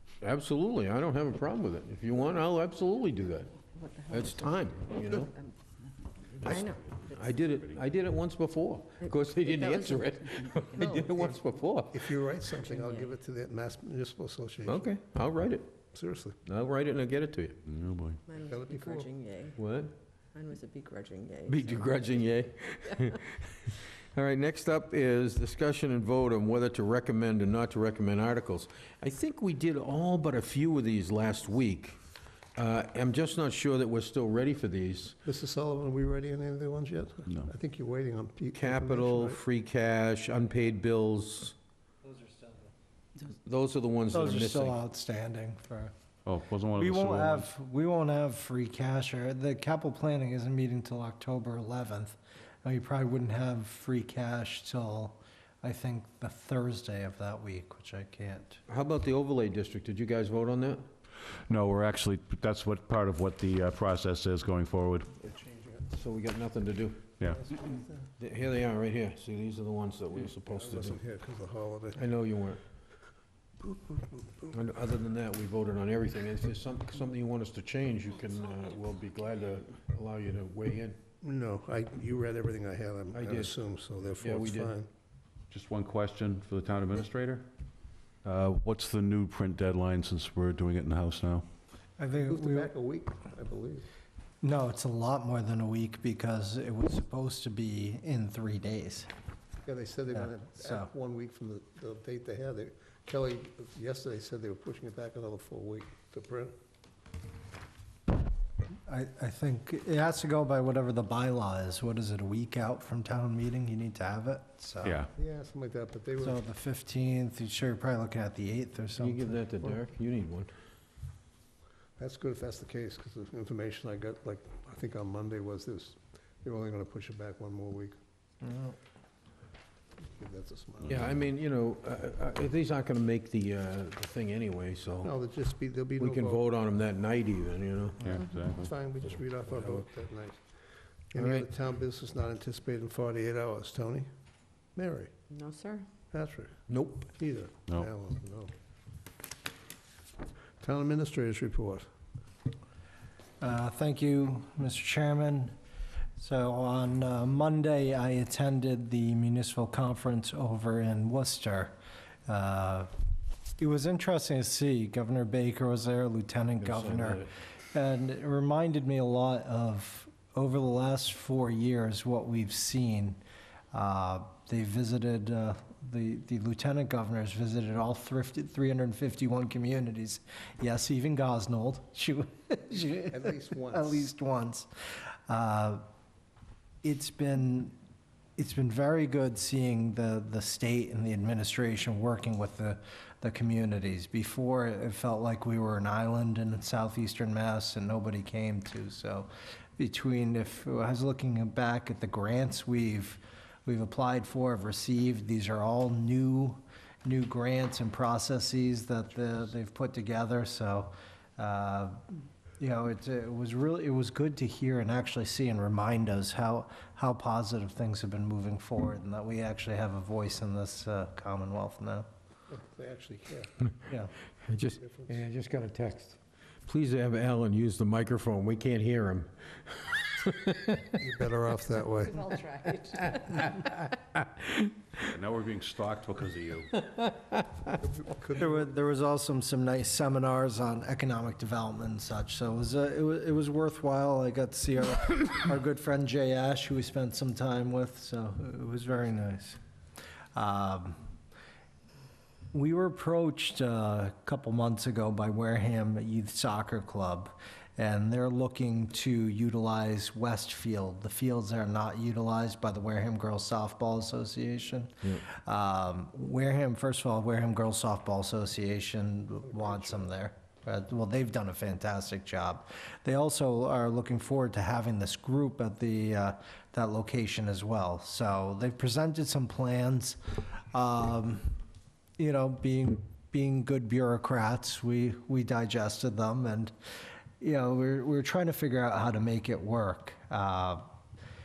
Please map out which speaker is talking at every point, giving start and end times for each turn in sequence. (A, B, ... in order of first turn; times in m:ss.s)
0:00.2-0:03.6 A
0:03.6-0:05.5 B
0:04.1-0:05.3 A
0:06.4-0:12.2 A
0:06.4-0:07.2 B
0:09.0-0:11.0 B
0:10.8-0:14.9 C
0:12.7-0:13.1 B
0:14.6-0:15.7 A
0:15.9-0:16.4 C
0:16.4-0:17.6 A
0:17.6-0:18.2 D
0:18.3-0:19.6 B
0:18.5-0:19.1 C
0:19.6-0:19.9 A
0:20.3-0:22.1 B
0:21.5-0:32.0 A
0:32.6-0:35.2 A
0:35.2-0:39.4 C
0:38.5-0:41.5 A
0:42.1-0:42.7 E
0:43.2-0:44.8 A
0:44.1-0:45.9 E
0:46.2-0:47.5 D
0:46.8-0:58.6 E
0:58.7-1:00.8 A
1:01.5-1:05.1 D
1:05.2-1:06.0 C
1:05.9-1:07.0 A
1:07.2-1:08.1 C
1:08.2-1:11.0 A
1:10.4-1:12.0 C
1:12.0-1:12.6 A
1:13.6-1:14.5 C
1:14.5-1:21.0 A
1:21.2-1:24.9 C
1:23.1-1:23.5 A
1:24.2-1:24.7 A
1:25.5-1:27.5 D
1:28.2-1:31.4 D
1:32.0-1:32.7 E
1:32.1-1:33.8 C
1:34.4-1:39.1 E
1:39.6-1:46.5 C
1:40.6-1:40.9 E
1:48.9-1:55.0 E
1:54.8-1:55.1 D
1:55.2-1:56.4 C
1:56.2-1:59.7 E
1:59.0-2:00.5 A
2:02.0-2:08.0 C
2:08.4-2:08.7 E
2:10.2-2:11.1 C
2:10.8-2:11.1 D
2:10.8-2:15.1 A
2:15.0-2:16.5 C
2:16.0-2:18.0 A
2:18.0-2:18.7 D
2:18.5-2:20.4 C
2:21.1-2:24.1 C
2:21.2-2:21.4 A
2:24.8-2:25.1 C
2:25.3-2:25.9 B
2:26.1-2:28.5 C
2:26.7-2:27.1 A
2:30.6-2:31.9 C
2:33.4-2:35.5 E
2:36.2-2:41.8 E
2:42.3-2:42.9 E
2:43.6-2:53.2 E
2:46.6-2:47.3 A
2:53.7-3:04.7 E
3:03.1-3:04.0 C
3:05.3-3:05.8 E
3:06.8-3:07.8 E
3:08.4-3:42.1 E
3:42.5-3:43.6 C
3:43.9-3:44.1 E
3:44.4-3:50.9 A
3:44.7-3:45.2 C
3:50.9-3:52.2 C
3:51.8-3:53.8 B
3:55.0-3:56.8 D
3:56.8-3:57.4 A
3:57.7-3:58.7 C
3:58.4-4:09.6 E
4:10.3-4:11.0 E
4:12.5-4:41.6 E
4:29.4-4:30.1 C
4:42.2-4:46.7 E
4:47.4-4:50.8 E